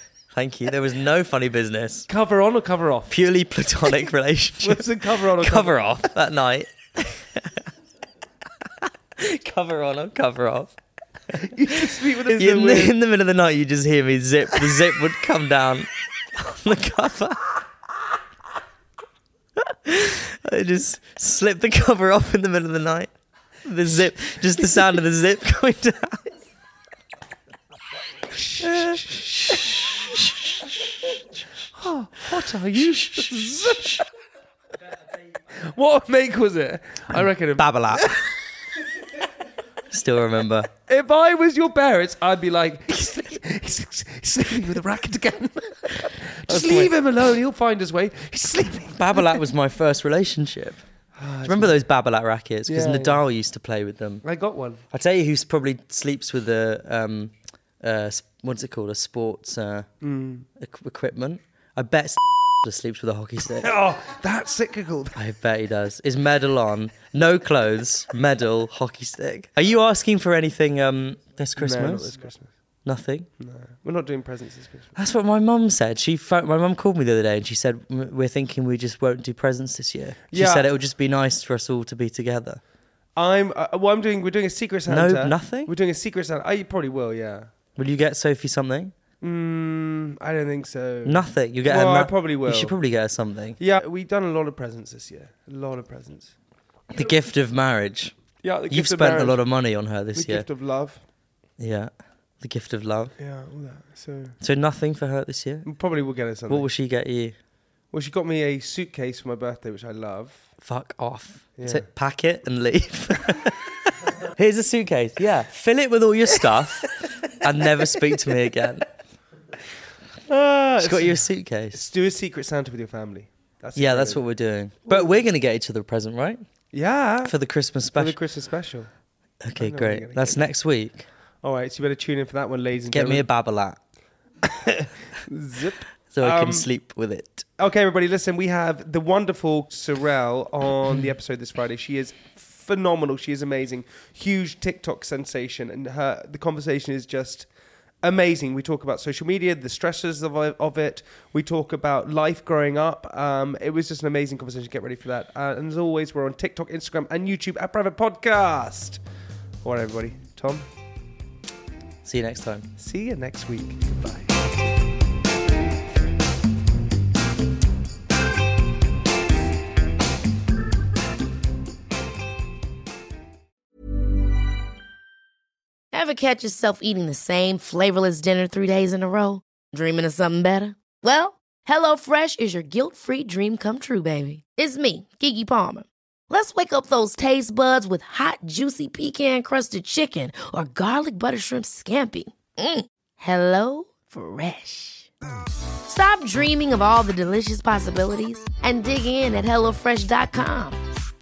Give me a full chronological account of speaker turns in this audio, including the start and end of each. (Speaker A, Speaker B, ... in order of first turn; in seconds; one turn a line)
Speaker A: 0.3-2.1
Speaker B: 2.1-3.2
Speaker A: 3.1-7.5
Speaker B: 4.6-6.0
Speaker A: 9.2-10.7
Speaker B: 11.4-12.9
Speaker A: 11.8-17.6
Speaker A: 19.6-23.1
Speaker A: 23.6-26.3
Speaker B: 28.3-29.9
Speaker A: 28.6-30.6
Speaker B: 31.8-34.0
Speaker A: 32.9-33.9
Speaker B: 35.5-38.3
Speaker A: 37.1-38.2
Speaker A: 39.9-40.7
Speaker B: 40.9-49.4
Speaker A: 46.5-46.9
Speaker A: 49.0-50.8
Speaker B: 51.2-51.8
Speaker A: 51.5-54.2
Speaker B: 52.7-53.2
Speaker B: 54.2-54.8
Speaker A: 54.9-59.9
Speaker B: 60.0-60.5
Speaker A: 60.6-63.7
Speaker B: 63.6-65.2
Speaker A: 65.2-72.2
Speaker B: 71.6-72.5
Speaker A: 72.8-73.3
Speaker B: 73.4-74.9
Speaker A: 75.0-82.6
Speaker B: 80.3-80.7
Speaker B: 83.2-87.5
Speaker A: 84.9-85.7
Speaker A: 87.8-88.9
Speaker B: 89.2-92.8
Speaker A: 91.0-93.6
Speaker B: 93.6-96.3
Speaker A: 96.9-98.1
Speaker B: 98.4-99.4
Speaker A: 98.7-100.5
Speaker B: 100.2-101.0
Speaker A: 101.6-103.2
Speaker B: 103.2-104.3
Speaker A: 104.4-105.7
Speaker B: 105.7-106.7
Speaker A: 106.5-107.3
Speaker B: 107.9-110.4
Speaker A: 110.6-118.9
Speaker B: 111.6-111.8
Speaker B: 120.3-121.2
Speaker A: 120.8-121.8
Speaker B: 121.8-124.2
Speaker A: 123.8-126.4
Speaker B: 124.9-125.2
Speaker B: 126.7-127.3
Speaker A: 127.2-128.2
Speaker B: 128.0-128.9
Speaker A: 129.4-131.1
Speaker B: 129.6-130.4
Speaker B: 131.4-133.2
Speaker A: 132.9-133.8
Speaker B: 134.4-136.7
Speaker A: 136.1-137.5
Speaker B: 137.6-147.5
Speaker B: 148.0-159.0
Speaker B: 159.6-160.7
Speaker A: 162.1-162.7
Speaker B: 162.8-164.3
Speaker C: 175.9-195.1
Speaker C: 195.9-200.8